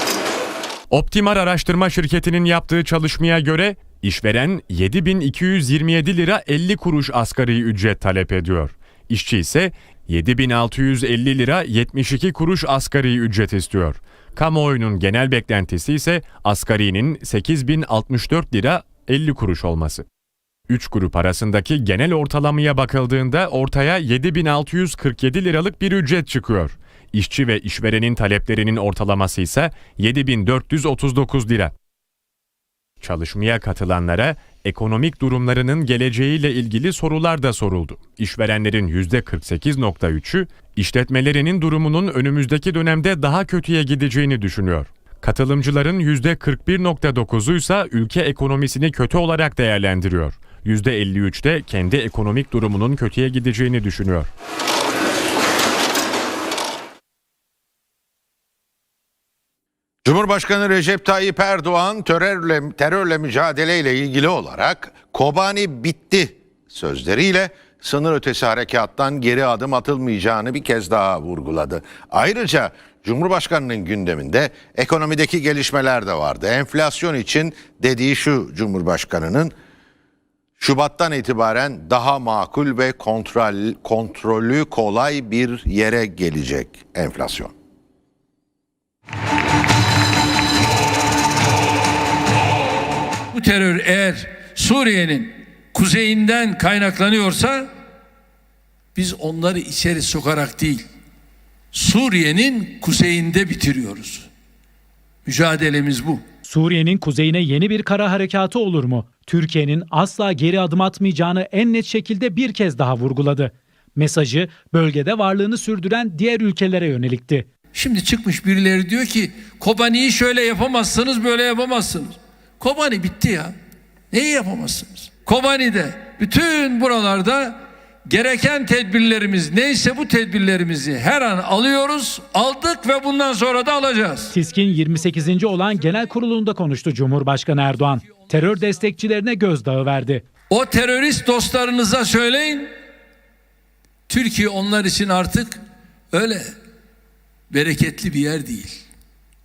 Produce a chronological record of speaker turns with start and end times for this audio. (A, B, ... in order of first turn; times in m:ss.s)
0:00.9-0:20.0 A
0:20.7-0:31.7 A
0:33.0-0:54.3 A
1:00.0-1:19.5 B
1:20.6-1:27.5 B
1:33.3-1:37.7 C
1:38.9-1:40.8 C
1:41.7-1:44.3 C
1:45.2-1:46.2 C
1:46.5-1:57.5 D
1:57.7-2:03.5 C
2:04.1-2:14.4 C
2:14.3-2:20.2 D
2:18.0-2:18.6 C
2:20.5-2:22.7 C
2:24.1-2:26.5 C
2:27.5-2:28.8 C